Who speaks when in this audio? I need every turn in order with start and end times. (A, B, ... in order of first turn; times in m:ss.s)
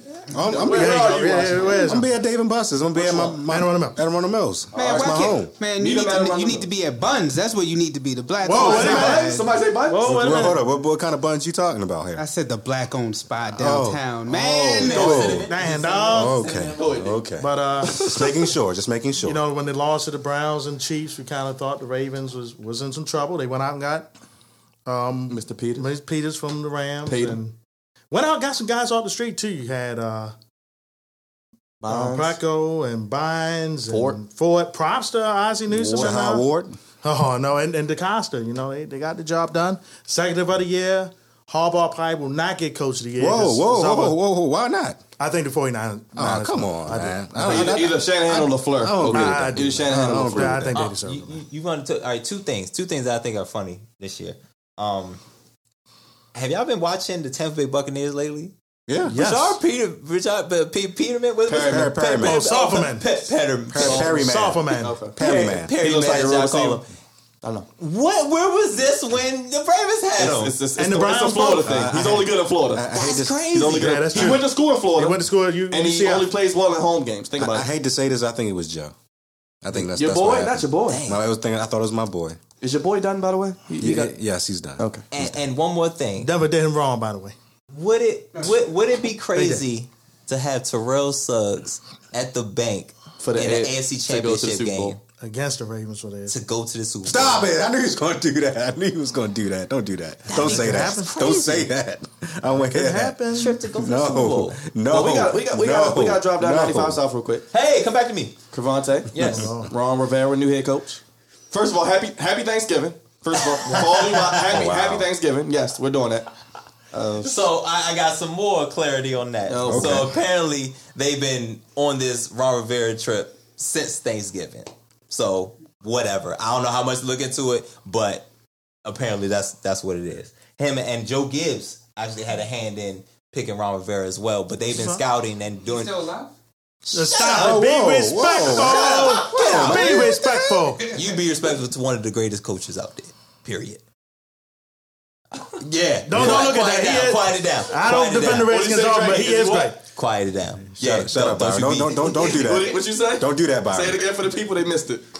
0:00.3-0:05.5 A
0:00.4-0:02.0 B
0:00.6-0:02.1 C
0:02.9-0:04.0 C
0:04.7-0:06.7 B
0:04.7-0:09.5 D
0:08.4-0:09.3 C
0:08.5-0:10.6 B
0:09.9-0:10.6 C
0:10.0-0:12.2 A
0:12.2-0:15.4 D
0:13.6-0:15.5 A
0:14.4-0:17.2 E
0:15.2-0:16.5 C
0:16.1-0:19.4 A
0:16.8-0:17.2 B
0:17.4-0:18.1 C
0:17.8-0:18.4 B
0:19.2-0:24.1 C
0:24.9-0:27.6 C
0:25.3-0:25.9 B
0:27.0-0:27.4 B
0:28.1-0:30.4 C
0:31.8-0:32.4 B
0:31.9-0:36.5 C
0:33.9-0:34.2 B
0:35.7-0:36.8 A
0:37.0-0:44.2 C
0:43.2-0:45.0 A
0:45.2-0:47.8 C
0:46.2-0:50.8 A
0:47.4-0:50.7 B
0:49.0-0:51.4 C
0:50.7-0:55.2 E
0:56.3-0:58.5 E
0:58.9-0:59.2 A
0:59.1-1:04.2 E
0:59.1-0:59.6 C
1:01.5-1:02.0 B
1:01.6-1:02.4 A
1:02.2-1:03.1 C
1:03.7-1:05.7 A
1:03.8-1:05.0 C
1:03.8-1:06.8 B
1:05.2-1:06.9 E
1:07.4-1:07.7 B
1:07.8-1:10.6 E
1:10.2-1:12.9 B
1:10.8-1:11.7 C
1:11.6-1:14.4 A
1:12.9-1:14.4 E
1:13.5-1:17.7 B
1:13.6-1:16.3 C
1:17.4-1:19.0 A
1:19.6-1:22.4 A
1:19.8-1:21.0 B
1:20.9-1:21.2 E
1:22.6-1:24.1 B
1:23.8-1:25.5 A
1:24.8-1:25.0 B
1:25.1-1:26.3 E
1:26.2-1:27.4 C
1:27.7-1:35.0 E
1:29.4-1:29.6 C
1:33.2-1:35.0 B
1:35.2-1:36.4 C
1:36.3-1:37.5 E
1:37.0-1:47.0 A
1:40.3-1:41.7 E
1:40.4-1:41.3 C
1:42.6-1:43.6 C
1:43.3-1:44.6 E
1:44.9-1:47.4 B
1:47.5-1:48.4 E
1:48.5-1:56.3 B
1:49.1-1:49.5 E
1:49.2-1:49.7 C
1:53.6-1:54.7 E
1:54.5-1:55.1 A
1:56.9-1:57.4 B
1:57.2-2:08.3 E
1:59.5-2:00.1 B
1:59.7-2:00.2 A
2:08.8-2:16.1 E
2:14.7-2:15.0 C
2:15.6-2:16.3 D
2:16.9-2:20.9 C
2:16.9-2:17.6 E
2:17.3-2:20.8 A
2:18.3-2:20.1 E
2:20.9-2:21.2 D
2:20.9-2:23.8 E
2:25.3-2:28.5 E
2:26.1-2:29.8 C
2:28.1-2:29.7 B
2:29.9-2:32.3 E
2:30.8-2:34.0 A
2:32.2-2:35.0 B